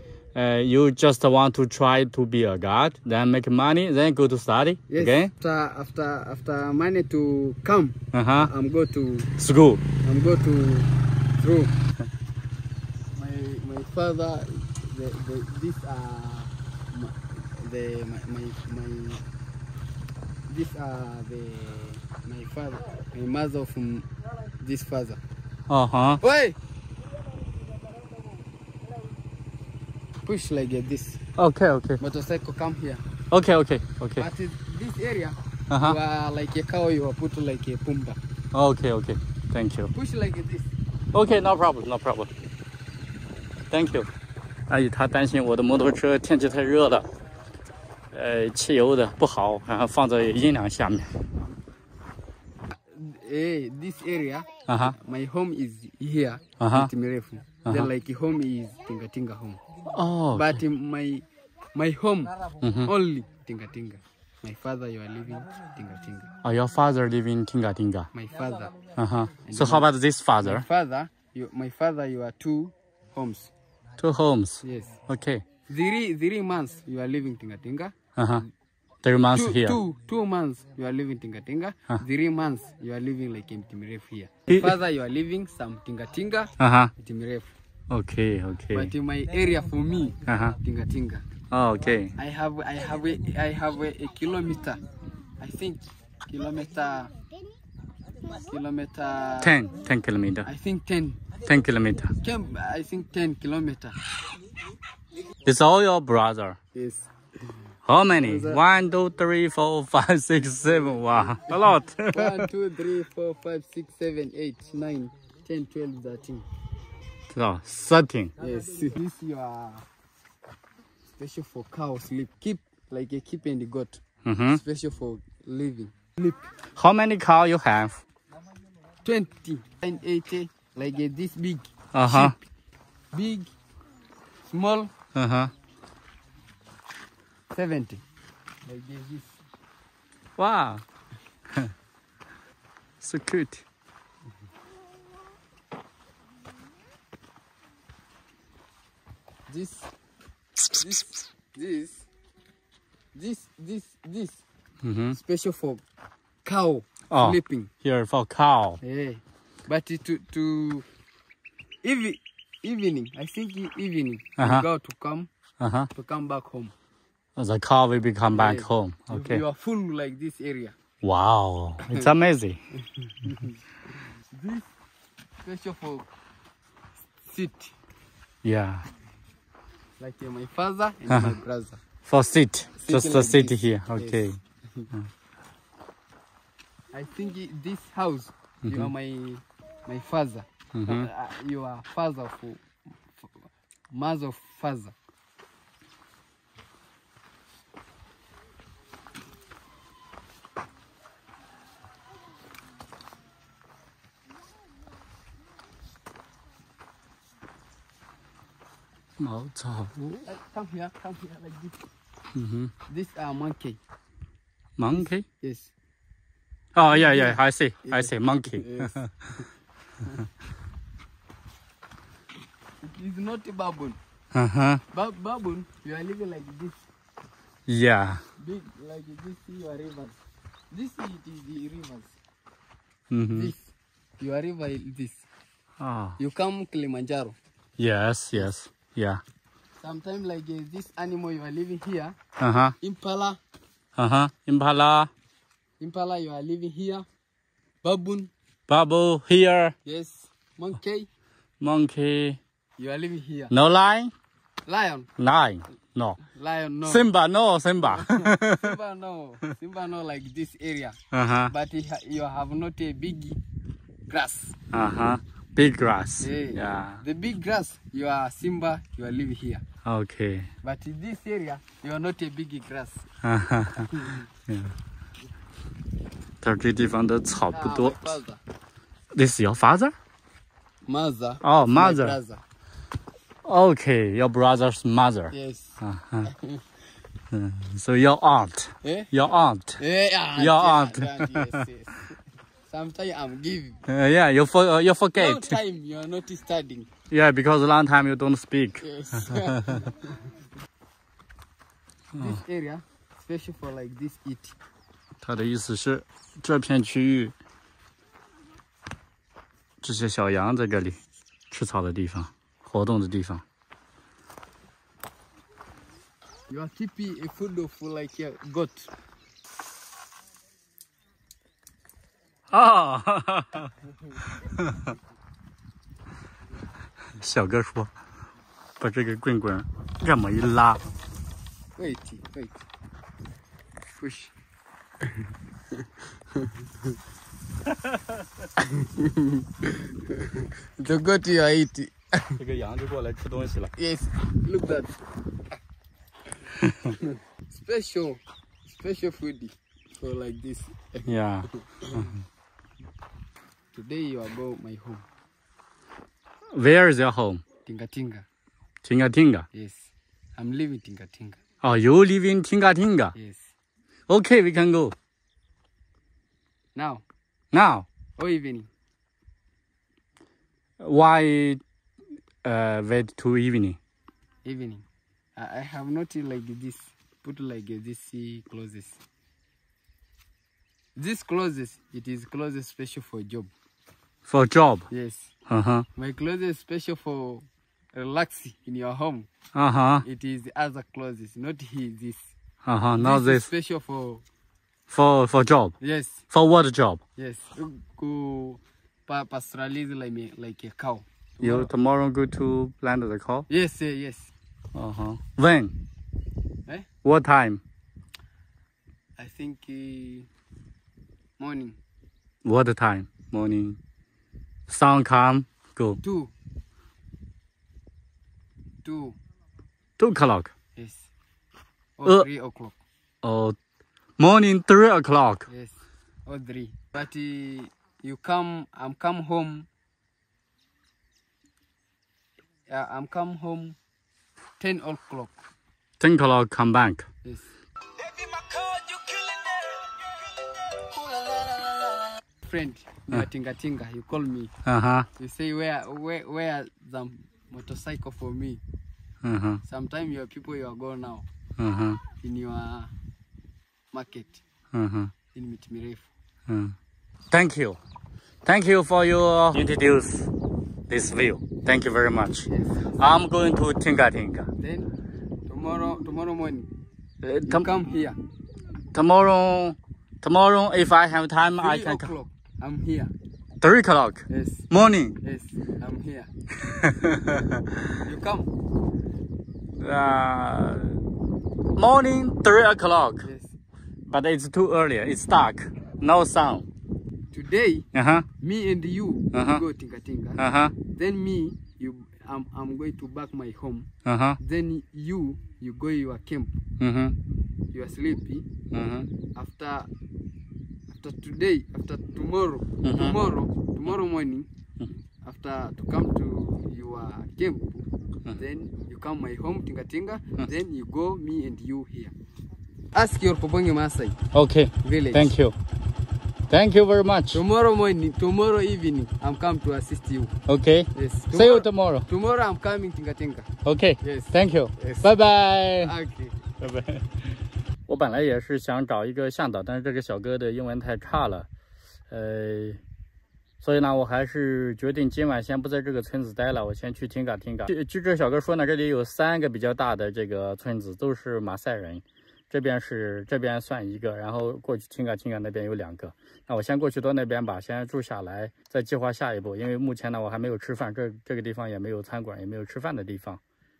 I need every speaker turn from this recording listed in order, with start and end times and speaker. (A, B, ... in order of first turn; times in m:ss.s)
0:00.3-0:05.3 A
0:04.9-0:09.3 B
0:08.1-0:08.5 A
0:09.4-0:09.8 A
0:10.0-0:11.7 B
0:13.1-0:19.2 B
0:20.5-0:24.1 B
0:24.6-0:25.2 B
0:25.7-0:26.2 A
0:26.2-0:26.6 B
0:30.2-0:31.2 B
0:31.4-0:32.0 A
0:32.0-0:33.0 B
0:33.3-0:34.2 A
0:34.2-0:38.2 B
0:35.7-0:36.0 A
0:38.5-0:39.9 A
0:39.9-0:40.7 B
0:41.1-0:42.3 A
0:43.7-0:44.1 A
0:44.7-0:47.0 A
0:48.1-0:51.1 A
0:52.9-0:59.6 B
0:54.7-0:54.9 A
0:56.6-0:56.9 A
0:57.6-0:57.9 A
0:59.9-1:00.6 A
1:00.3-1:06.3 B
1:02.6-1:02.9 A
1:06.4-1:08.1 A
1:08.1-1:08.8 B
1:08.9-1:10.6 A
1:09.4-1:09.9 B
1:10.4-1:13.5 B
1:14.0-1:15.4 A
1:14.6-1:15.0 B
1:15.7-1:18.5 B
1:18.2-1:18.4 A
1:19.0-1:19.8 A
1:19.3-1:27.5 B
1:24.5-1:24.7 A
1:26.6-1:26.9 A
1:27.9-1:28.9 A
1:28.7-1:31.2 B
1:30.2-1:30.6 A
1:31.5-1:32.1 A
1:32.2-1:34.8 B
1:35.4-1:37.1 B
1:38.3-1:39.7 B
1:39.4-1:40.5 A
1:40.4-1:41.2 B
1:41.4-1:42.1 A
1:42.2-1:44.0 B
1:45.4-1:46.6 A
1:46.7-1:47.1 B
1:47.8-1:52.5 A
1:48.1-1:48.6 B
1:51.0-1:51.5 B
1:52.1-1:56.4 B
1:57.3-1:58.3 A
1:58.4-1:59.8 B
2:01.2-2:06.4 B
2:04.2-2:04.6 A
2:06.8-2:08.0 A
2:09.0-2:12.4 B
2:11.9-2:12.3 A
2:13.1-2:13.5 B
2:14.5-2:14.9 B
2:15.1-2:15.5 A
2:17.5-2:18.0 B
2:18.6-2:19.4 B
2:20.4-2:20.8 A
2:23.0-2:23.6 A
2:29.5-2:29.9 B
2:30.7-2:32.1 B
2:33.1-2:34.4 B
2:34.8-2:35.2 A
2:35.1-2:35.8 B
2:36.4-2:37.7 B
2:37.1-2:38.8 A
2:38.8-2:40.8 B
2:41.8-2:45.3 B
2:44.4-2:44.6 A
2:45.6-2:45.9 A
2:45.9-2:46.7 B
2:47.4-2:49.4 A
2:48.3-2:50.7 B
2:51.0-2:52.6 A
2:52.8-2:53.6 B
2:54.3-2:54.7 B
2:55.4-2:56.1 B
2:57.2-2:57.7 B
2:58.4-2:58.8 A
3:00.0-3:01.8 B
3:01.1-3:01.4 A
3:02.1-3:04.4 A
3:02.8-3:04.9 B
3:06.9-3:12.6 B
3:08.6-3:08.9 A
3:10.7-3:11.1 A
3:13.2-3:14.9 B
3:29.2-3:30.2 A
3:30.2-3:31.8 B
3:32.3-3:32.7 A
3:32.9-3:33.8 B
3:34.8-3:35.2 A
3:34.9-3:35.7 B
3:36.7-3:38.9 A
3:36.9-3:39.1 B
3:42.8-3:44.0 B
3:44.3-3:44.8 A
3:44.9-3:46.8 B
3:47.7-3:48.2 A
3:48.4-3:50.2 B
3:50.7-3:52.2 B
3:53.1-3:53.5 A
3:53.3-3:55.2 B
3:55.8-3:56.2 A
3:56.2-3:57.4 B
3:57.8-3:59.2 A
3:59.8-4:02.2 B
4:02.4-4:02.7 A
4:02.8-4:03.4 B
4:04.0-4:05.1 A
4:05.8-4:07.0 B
4:07.8-4:08.3 B
4:08.7-4:09.7 A
4:09.8-4:11.1 B
4:11.6-4:12.4 A
4:12.8-4:13.5 B
4:13.5-4:14.1 A
4:14.6-4:15.1 B
4:15.2-4:16.2 A
4:16.2-4:17.1 B
4:16.8-4:18.8 A
4:17.8-4:21.0 B
4:21.1-4:21.5 A
4:21.5-4:23.4 B
4:24.1-4:24.6 B
4:24.7-4:27.0 A
4:26.2-4:29.6 B
4:29.8-4:30.5 A
4:30.6-4:33.0 B
4:33.2-4:33.9 A
4:33.9-4:34.2 B
4:34.5-4:34.7 A
4:36.4-4:38.1 A
4:37.5-4:38.4 B
4:39.1-4:39.9 A
4:40.8-4:42.4 B
4:41.4-4:42.2 A
4:43.4-4:46.3 A
4:45.3-4:46.6 B
4:47.3-4:49.8 A
4:48.8-4:49.1 B
4:49.8-4:53.8 B
4:50.4-4:51.6 A
4:53.9-4:55.6 A
4:55.2-4:56.9 B
4:57.1-4:59.8 A
4:58.8-5:00.3 B
5:02.1-5:04.6 B
5:05.2-5:07.3 A
5:09.8-5:11.0 A
5:11.5-5:13.4 A
5:16.5-5:18.9 B
5:22.5-5:24.9 A
5:27.2-5:27.9 A
5:28.8-5:30.8 A
5:31.8-5:32.6 B
5:34.0-5:34.3 B
5:36.3-5:36.6 B
5:37.7-5:38.1 A
5:38.6-5:42.4 B
5:42.4-5:43.7 A
5:43.8-5:44.9 B
5:46.8-5:52.1 B
5:51.0-5:52.1 A
5:53.7-5:55.0 B
5:56.5-5:57.4 A
5:57.6-5:58.2 B
5:58.8-5:59.4 A
5:59.5-6:01.4 B
6:01.6-6:03.1 A
6:03.1-6:03.5 B
6:04.1-6:04.9 A
6:06.7-6:07.0 B
6:07.5-6:07.9 A
6:08.2-6:08.7 B
6:10.8-6:11.6 A
6:12.4-6:13.8 A
6:14.4-6:14.8 B
6:15.4-6:19.0 B
6:21.0-6:23.5 B
6:24.3-6:24.9 A
6:24.9-6:25.3 B
6:25.5-6:25.8 A
6:26.0-6:29.3 B
6:29.5-6:30.0 A
6:30.0-6:32.3 B
6:32.6-6:33.5 A
6:33.0-6:34.2 B
6:34.9-6:35.8 A
6:35.8-6:36.2 B
6:36.3-6:37.0 A
6:37.2-6:41.7 B
6:41.4-6:43.5 A
6:43.5-6:44.3 B
6:44.7-6:45.7 A
6:47.0-6:47.6 A
6:49.2-6:50.3 B
6:51.4-6:51.8 B
6:52.4-6:53.8 A
6:54.7-6:56.0 A
6:56.0-6:56.3 B
6:58.8-6:59.2 B
7:00.0-7:00.5 A
7:00.8-7:01.1 B
7:02.0-7:02.8 B
7:03.2-7:03.6 A
7:04.2-7:05.4 A
7:05.5-7:09.7 B
7:12.7-7:13.8 B
7:14.6-7:15.3 B
7:16.0-7:17.0 A
7:17.2-7:17.5 B
7:18.1-7:19.9 B
7:20.8-7:24.5 B
7:24.6-7:25.1 A
7:25.2-7:28.6 B
7:29.2-7:29.6 A
7:29.6-7:31.2 B
7:31.6-7:32.0 A
7:32.2-7:32.9 B
7:33.9-7:34.4 B
7:34.7-7:35.1 A
7:35.3-7:36.1 B
7:36.5-7:36.7 A
7:37.3-7:37.8 A
7:38.4-7:40.3 A
7:40.9-7:42.5 A
7:42.4-7:43.1 B
7:43.0-7:44.5 A
7:44.6-7:44.9 B
7:45.5-7:46.7 B
7:47.2-7:47.7 A
7:47.4-7:48.2 B
7:48.9-7:52.1 A
7:51.6-7:53.1 B
7:53.6-7:55.2 A
7:54.3-7:54.7 B
7:55.2-7:56.3 B
7:56.7-7:57.9 A
7:58.0-7:58.5 B
7:59.8-8:01.0 A
8:01.8-8:03.2 A
8:03.2-8:03.6 B
8:04.1-8:06.6 A
8:07.3-8:07.9 B
8:07.9-8:08.2 A
8:08.4-8:13.9 B
8:09.3-8:09.6 A
8:10.4-8:10.7 A
8:14.0-8:14.4 A
8:14.4-8:16.6 B
8:16.8-8:17.2 A
8:17.7-8:18.4 B
8:18.7-8:19.1 A
8:19.3-8:19.9 B
8:20.9-8:24.5 B
8:22.8-8:23.2 A
8:25.2-8:32.1 B
8:32.9-8:34.2 B
8:34.3-8:35.5 A
8:34.8-8:35.3 B
8:36.5-8:37.4 A
8:37.3-8:40.3 B
8:40.5-8:42.0 A
8:40.9-8:43.5 B
8:43.6-8:45.9 A
8:44.0-8:45.2 B
8:45.8-8:46.4 B
8:46.6-8:47.3 A
8:47.9-8:51.5 A
8:52.1-8:52.8 A
8:53.6-9:13.4 A